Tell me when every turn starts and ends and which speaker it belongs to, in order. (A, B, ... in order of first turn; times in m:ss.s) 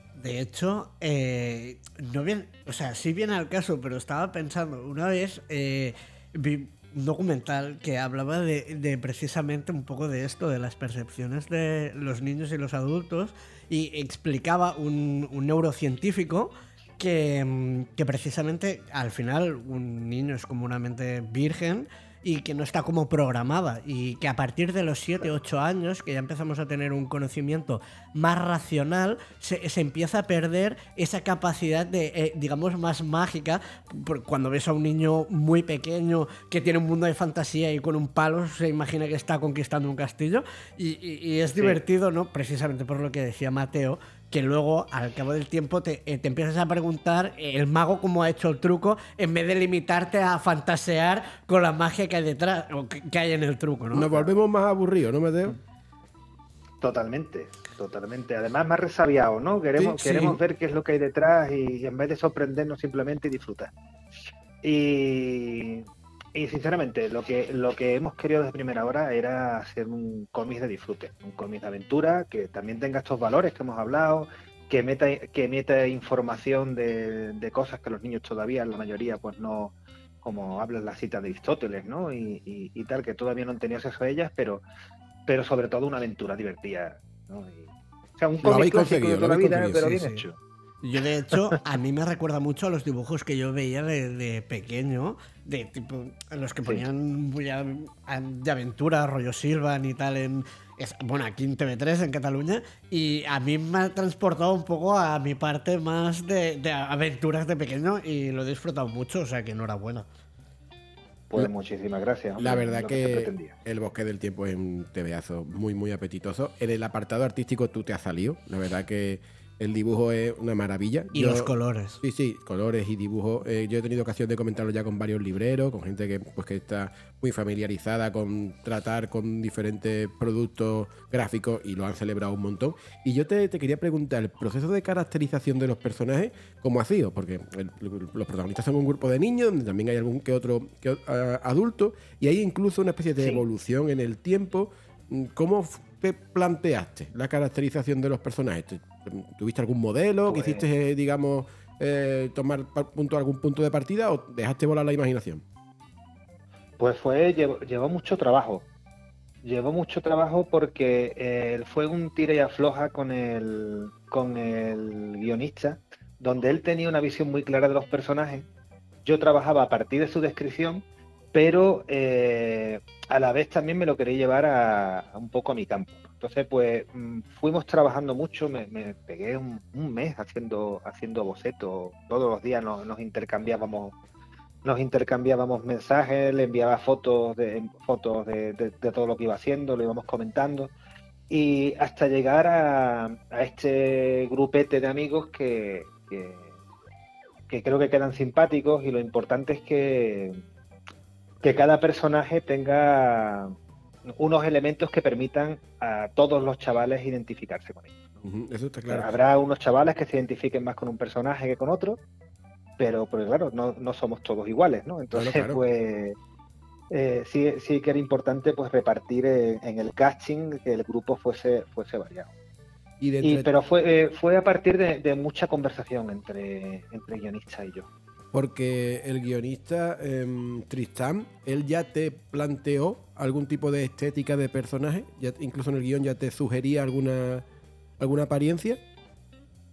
0:00.2-0:54.1 A
0:53.9-0:55.6 B
0:56.8-1:03.7 C
0:59.8-1:00.4 B
1:04.6-1:24.6 C
1:25.3-1:30.4 C
1:28.4-1:30.0 B
1:29.9-1:30.2 A
1:30.8-1:50.1 A
1:51.3-1:53.6 C
1:52.4-2:35.4 B
2:01.1-2:02.0 A
2:30.3-2:30.6 C
2:36.8-2:38.7 C
2:39.4-2:48.5 C
2:49.1-3:04.0 C
3:04.6-3:10.7 C
3:11.3-3:16.5 C
3:17.5-3:20.4 C
3:21.4-3:23.5 C
3:24.1-3:28.2 C
3:28.2-3:29.1 B
3:28.9-3:32.0 C
3:32.8-3:36.2 C
3:35.1-3:35.6 B
3:36.9-3:42.3 C
3:43.0-3:43.5 B
3:43.2-3:47.9 C
3:48.3-3:57.4 B
3:58.0-3:58.8 B